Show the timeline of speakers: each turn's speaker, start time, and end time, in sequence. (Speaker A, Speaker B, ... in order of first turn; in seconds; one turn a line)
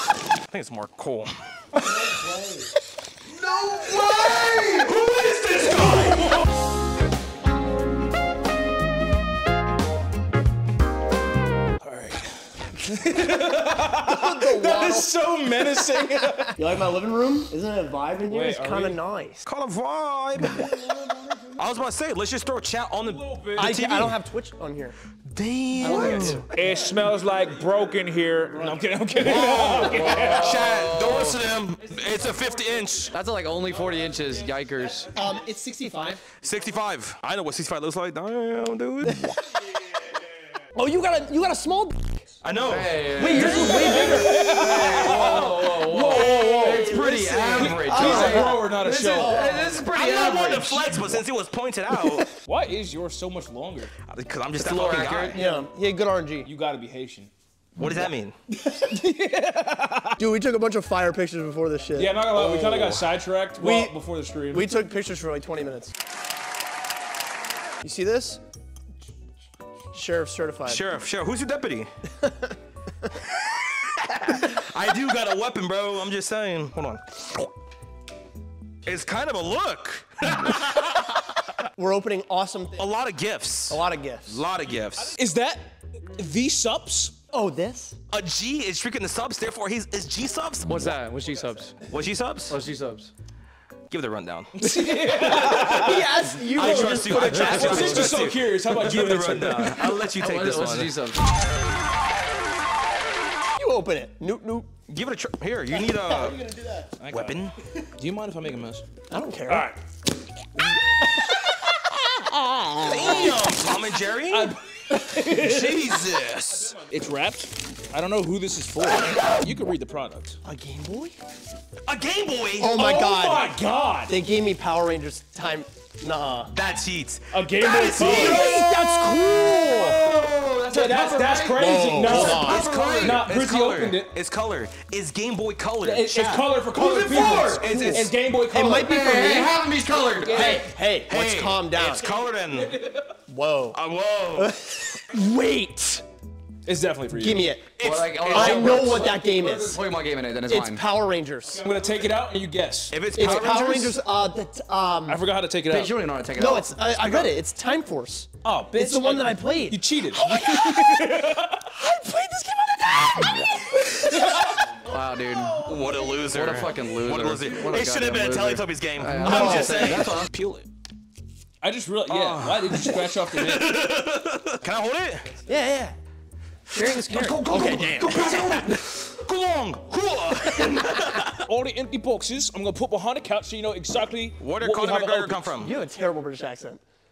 Speaker A: 0.4-1.3
Speaker B: 1.8-2.7
Speaker C: 3.3-4.9
Speaker A: 3.8-6.4
Speaker C: 5.7-6.1
Speaker C: 11.8-16.5
Speaker B: 14.0-15.1
Speaker B: 16.6-19.4
Speaker C: 18.2-19.0
Speaker A: 19.4-20.7
Speaker C: 20.6-21.5
Speaker A: 21.5-24.2
Speaker C: 23.1-23.7
Speaker B: 23.6-24.9
Speaker A: 25.3-26.5
Speaker B: 25.8-26.9
Speaker C: 25.9-30.7
Speaker A: 29.2-33.1
Speaker D: 29.3-31.4
Speaker C: 31.9-32.6
Speaker D: 33.1-35.1
Speaker B: 35.1-36.2
Speaker A: 36.4-39.3
Speaker B: 39.1-39.4
Speaker B: 40.7-42.2
Speaker A: 42.4-43.5
Speaker D: 42.7-51.1
Speaker B: 43.1-44.9
Speaker C: 43.3-49.8
Speaker A: 46.6-48.4
Speaker B: 47.9-48.6
Speaker A: 49.9-52.3
Speaker C: 52.4-53.9
Speaker A: 54.0-55.4
Speaker D: 54.5-55.5
Speaker B: 55.3-56.5
Speaker C: 56.4-57.3
Speaker A: 57.8-58.3
Speaker C: 58.6-60.2
Speaker B: 60.2-62.2
Speaker C: 62.0-64.7
Speaker A: 62.3-63.0
Speaker B: 63.6-64.0
Speaker B: 64.5-65.9
Speaker B: 67.8-68.4
Speaker B: 69.9-70.8
Speaker A: 70.7-71.9
Speaker B: 72.2-72.5
Speaker A: 74.0-77.2
Speaker A: 78.8-81.4
Speaker B: 81.8-82.8
Speaker A: 82.8-85.2
Speaker B: 83.7-84.4
Speaker C: 85.0-87.1
Speaker B: 87.3-88.0
Speaker A: 88.1-91.0
Speaker D: 90.6-91.8
Speaker A: 91.9-92.6
Speaker D: 92.5-93.1
Speaker A: 93.9-94.6
Speaker C: 94.6-100.0
Speaker B: 95.4-98.2
Speaker A: 96.5-100.9
Speaker D: 97.4-98.1
Speaker D: 100.1-101.2
Speaker B: 103.5-104.7
Speaker A: 104.9-106.4
Speaker B: 105.8-106.9
Speaker A: 107.0-108.8
Speaker C: 107.1-107.3
Speaker B: 109.1-109.8
Speaker C: 109.5-109.7
Speaker B: 110.6-113.5
Speaker A: 112.8-114.5
Speaker C: 114.3-116.0
Speaker A: 115.2-116.8
Speaker C: 116.8-120.4
Speaker B: 120.4-121.2
Speaker A: 121.9-122.8
Speaker B: 122.6-123.5
Speaker C: 122.8-124.2
Speaker B: 124.1-126.5
Speaker A: 126.5-128.6
Speaker C: 127.3-130.0
Speaker B: 127.7-130.0
Speaker D: 128.2-133.2
Speaker C: 130.7-134.1
Speaker B: 131.6-132.7
Speaker A: 132.1-138.1
Speaker C: 135.8-139.4
Speaker B: 137.1-139.5
Speaker D: 138.8-140.6
Speaker C: 140.1-140.7
Speaker B: 140.2-142.1
Speaker A: 141.1-142.8
Speaker C: 142.5-143.0
Speaker B: 143.3-143.8
Speaker A: 143.7-144.6
Speaker B: 144.3-146.0
Speaker C: 146.7-147.5
Speaker B: 147.1-149.8
Speaker A: 147.8-149.1
Speaker D: 147.8-150.8
Speaker B: 150.5-151.6
Speaker C: 151.5-153.6
Speaker A: 152.9-154.0
Speaker B: 153.1-155.2
Speaker C: 155.1-156.1
Speaker D: 155.7-157.2
Speaker B: 156.3-163.8
Speaker C: 158.4-161.6
Speaker C: 163.8-164.8
Speaker D: 164.8-165.7
Speaker C: 165.5-166.2
Speaker A: 165.6-170.7
Speaker D: 166.2-170.3
Speaker B: 169.2-170.1
Speaker C: 171.6-173.8
Speaker A: 172.1-175.3
Speaker B: 175.4-175.9
Speaker B: 176.7-178.8
Speaker A: 176.7-181.5
Speaker C: 181.4-185.6
Speaker A: 184.4-185.7
Speaker B: 185.6-186.8